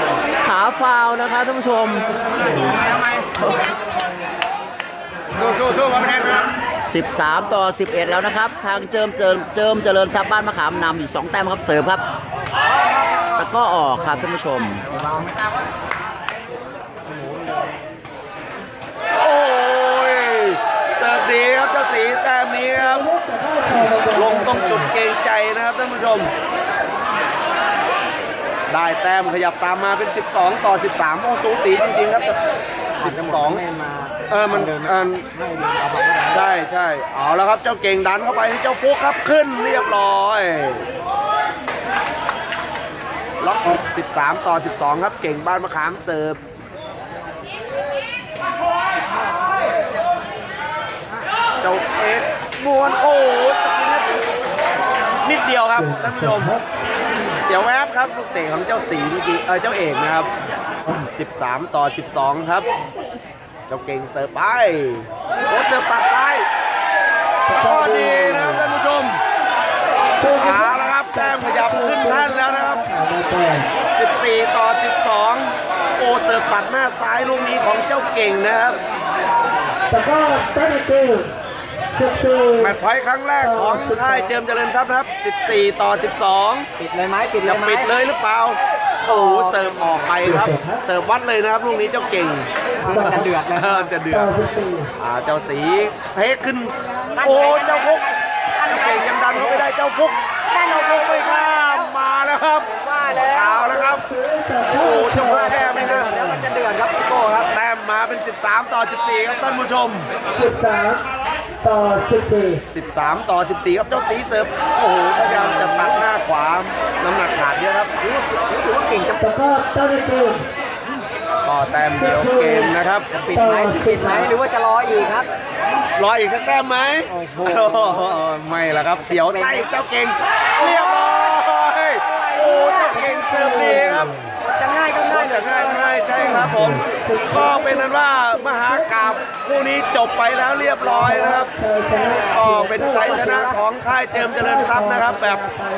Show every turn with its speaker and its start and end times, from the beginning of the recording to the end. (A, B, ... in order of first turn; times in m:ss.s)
0:00.4-0:03.7 A
0:06.9-0:12.0 A
0:13.3-0:14.8 A
0:19.2-0:23.1 B
0:23.2-0:23.6 C
0:23.7-0:26.3 B
0:28.7-0:32.4 B
0:33.0-0:33.6 B
0:33.0-0:36.4 D
0:34.3-0:35.3 B
0:36.3-0:40.9 B
0:43.4-0:46.4 B
0:51.6-0:54.2 B
0:55.2-0:56.6 B
0:57.4-1:00.3 B
1:01.0-1:02.7 B
1:03.7-1:06.5 B
1:07.5-1:09.2 B
1:10.3-1:12.9 B
1:12.9-1:13.6 C
1:13.9-1:18.8 B
1:20.0-1:21.3 C
1:22.0-1:22.5 C
1:22.6-1:26.7 B
1:26.8-1:27.9 D
1:27.4-1:32.5 B
1:29.0-1:30.0 D
1:32.8-1:34.0 D
1:33.4-1:34.3 B
1:35.0-1:38.1 B
1:37.2-1:38.0 D
1:38.6-1:44.1 B
1:38.7-1:39.6 D
1:40.6-1:41.7 D
1:42.9-1:43.7 D
1:44.6-1:46.2 B
1:45.1-1:47.2 D
1:47.0-1:50.1 B
1:50.5-1:51.0 C
1:51.7-1:52.6 C
1:52.7-1:57.9 B
1:55.3-1:56.0 D
1:58.3-1:59.8 D
1:59.8-2:00.4 C
2:01.4-2:03.1 B
2:03.1-2:05.3 D
2:06.0-2:14.2 B
2:07.1-2:08.0 D
2:09.0-2:09.7 D
2:14.6-2:15.9 D
2:15.1-2:25.5 B
2:23.0-2:23.6 D